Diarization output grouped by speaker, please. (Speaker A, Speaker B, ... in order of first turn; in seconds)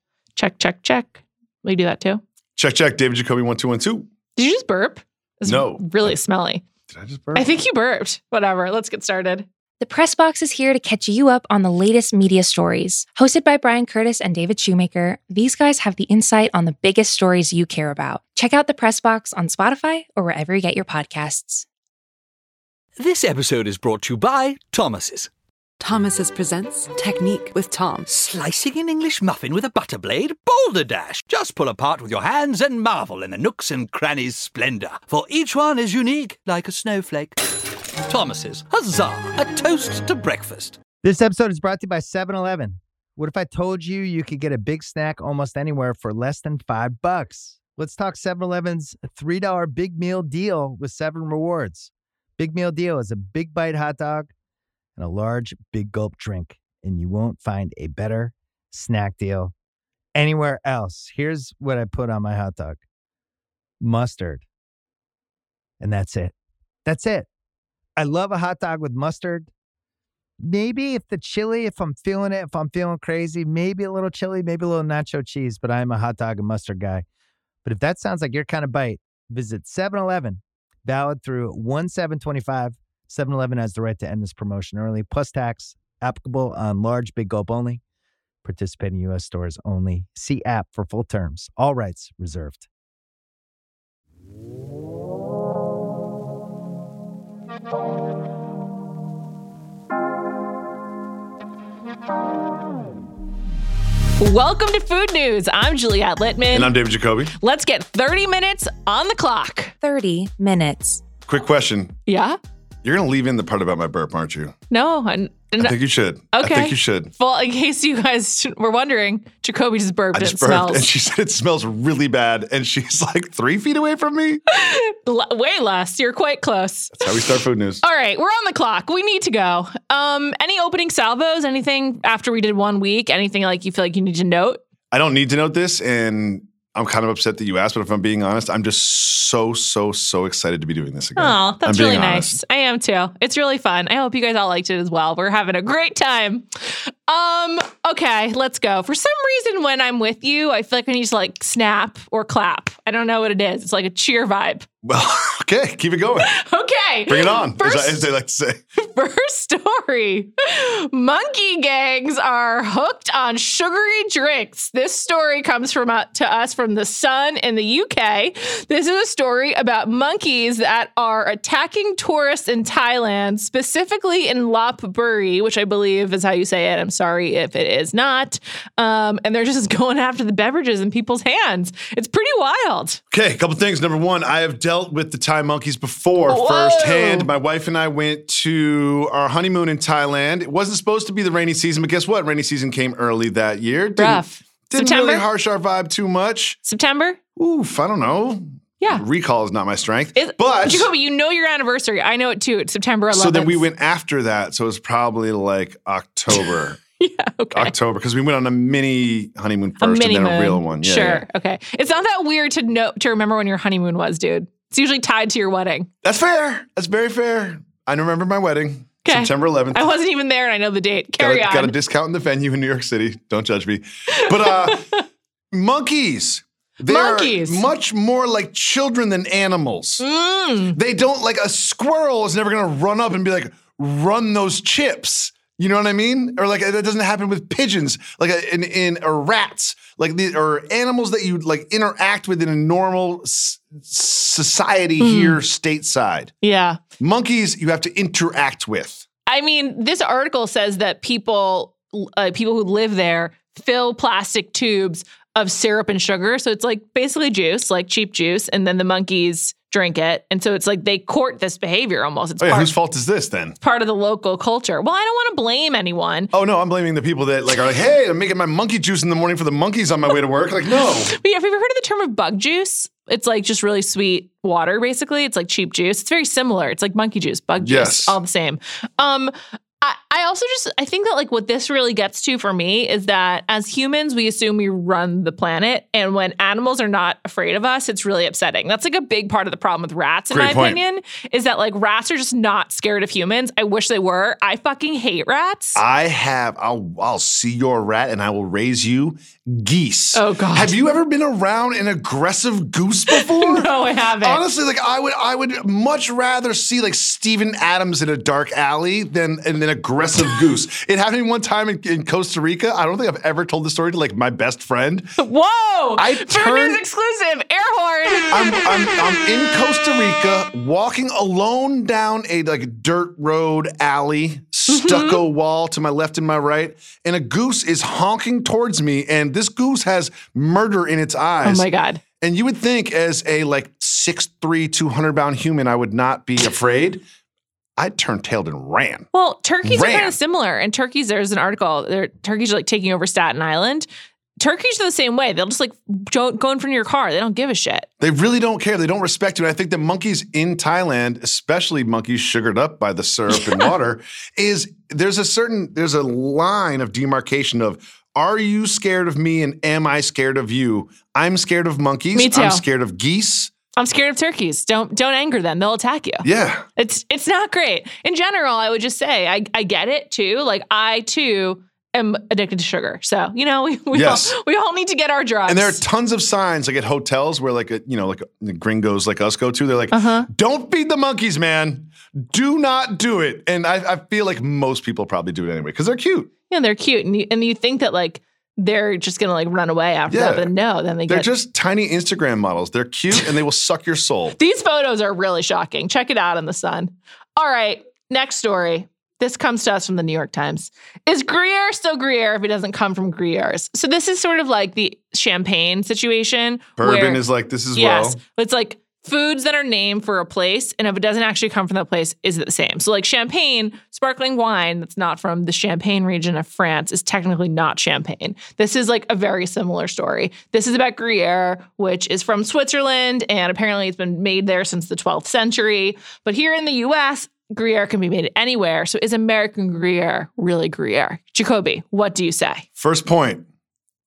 Speaker A: 0.3-2.2, 4.3-6.6, 7.3-9.4, 104.2-106.7, 107.4-109.7, 112.1-112.4, 114.7-115.7, 116.3-120.9, 124.5-127.2, 127.8-134.6, 141.2-154.7, 156.2-158.0, 158.8-183.0, 186.3-187.3, 194.0-195.2, 196.7-197.2, 200.2-203.6, 207.0-207.7, 209.8-215.9, 219.1-221.7, 224.1-225.0, 226.8-227.6, 230.0-230.8, 245.0-245.4, 246.4-246.8, 249.3-262.7, 263.6-266.3, 270.8-295.8, 300.1-300.7, 303.1-304.4, 315.2-319.0, 324.7-325.2, 331.4-332.0, 339.1-343.9, 344.4-347.9, 353.3-353.7, 362.1-362.6, 363.8-366.2, 366.8-375.8, 379.9-380.3, 386.5-391.3, 394.4-407.2, 407.7-432.6
Speaker B: 2.6-4.1, 5.5-6.2, 6.9-7.5, 106.5-107.3, 111.3-112.0, 112.8-114.5, 115.6-117.1, 120.1-124.4, 127.0-127.8, 134.9-142.4, 154.8-156.3, 157.1-158.6, 183.1-196.6, 197.3-200.9, 203.1-206.8, 207.5-211.2, 216.0-219.8, 221.2-224.9, 225.5-230.0, 230.7-246.3, 247.0-249.0, 262.4-263.6, 266.3-271.1, 277.6-278.1, 290.3-290.8, 295.8-315.1, 316.0-316.8, 318.3-331.7, 332.2-337.0, 337.8-339.1, 339.6-340.1, 348.0-363.5, 366.2-366.6, 373.9-374.3, 375.5-386.3, 390.1-390.5, 391.1-394.4, 406.8-408.2, 432.8-433.4
Speaker C: 9.8-21.6, 109.8-111.0
Speaker D: 23.0-25.3, 28.1-37.4, 38.0-40.8
Speaker E: 25.8-28.1
Speaker F: 41.0-54.3, 55.0-59.5, 60.1-62.8, 63.8-64.4, 65.8-66.3, 66.8-67.3, 68.0-69.5, 70.4-77.0, 77.6-87.8, 88.4-92.7